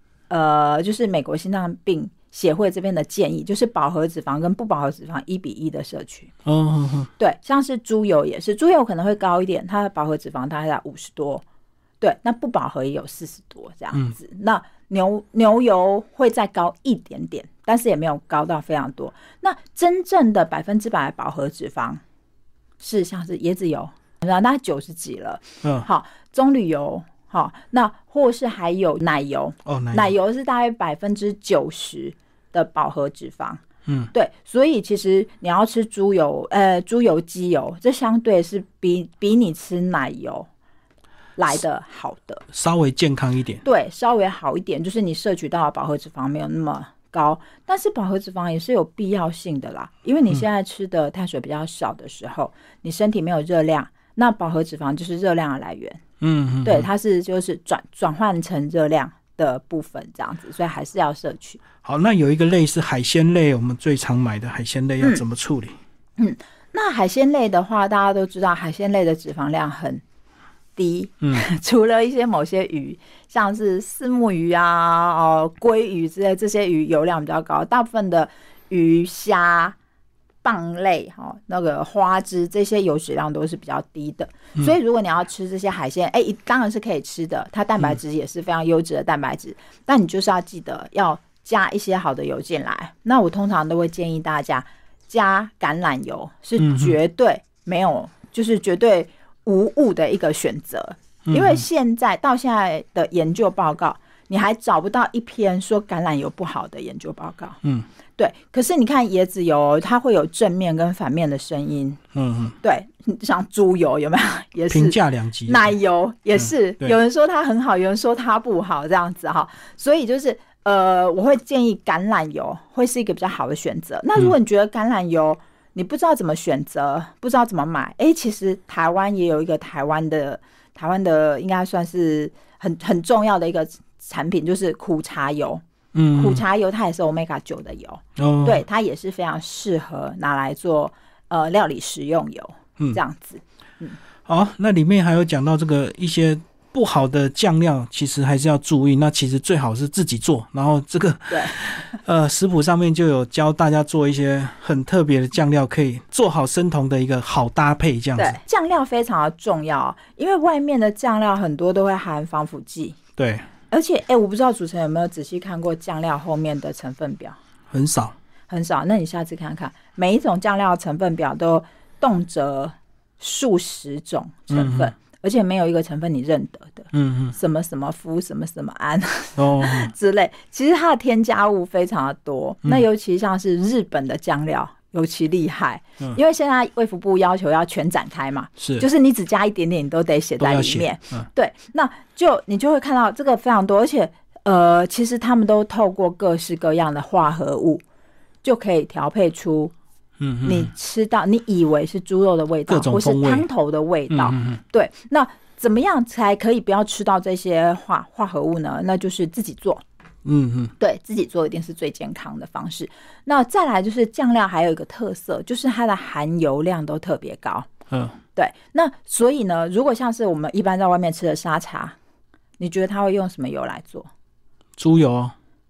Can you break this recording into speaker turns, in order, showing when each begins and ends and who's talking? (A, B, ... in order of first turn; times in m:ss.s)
0:00.3-0:06.3 A
0:06.4-0:07.1 B
0:07.2-0:11.4 A
0:12.0-0:22.0 A
0:22.8-0:40.5 A
0:29.7-0:30.1 B
0:33.9-0:34.1 B
0:41.4-0:42.4 A
0:42.5-0:43.6 B
0:43.6-0:56.0 A
0:56.2-0:56.9 B
0:56.6-1:01.6 A
1:01.8-1:05.8 B
1:06.2-1:10.0 A
1:10.8-1:19.8 A
1:20.4-1:47.6 A
1:36.6-1:37.0 B
1:41.3-1:41.6 B
1:48.2-1:52.0 A
1:52.1-1:52.6 B
1:52.6-2:15.6 A
1:54.7-1:55.8 B
1:56.4-1:57.0 B
2:15.9-2:16.4 B
2:16.2-2:24.0 A
2:18.2-2:18.6 B
2:24.3-2:38.4 B
2:31.3-2:31.6 A
2:38.2-2:43.0 A
2:43.2-2:43.5 B
2:43.7-2:47.4 A
2:47.7-2:48.2 B
2:48.5-3:17.8 A
2:54.5-2:54.9 B
2:56.9-2:57.4 B
2:59.4-2:59.9 B
3:08.6-3:08.9 B
3:10.4-3:11.3 B
3:18.4-3:19.7 A
3:20.2-3:20.7 B
3:20.4-3:29.8 A
3:22.7-3:23.5 B
3:24.1-3:24.6 B
3:30.2-3:30.7 B
3:30.8-3:37.7 A
3:37.9-3:38.2 B
3:38.4-3:42.0 A
3:42.6-3:44.1 A
3:44.8-3:45.4 B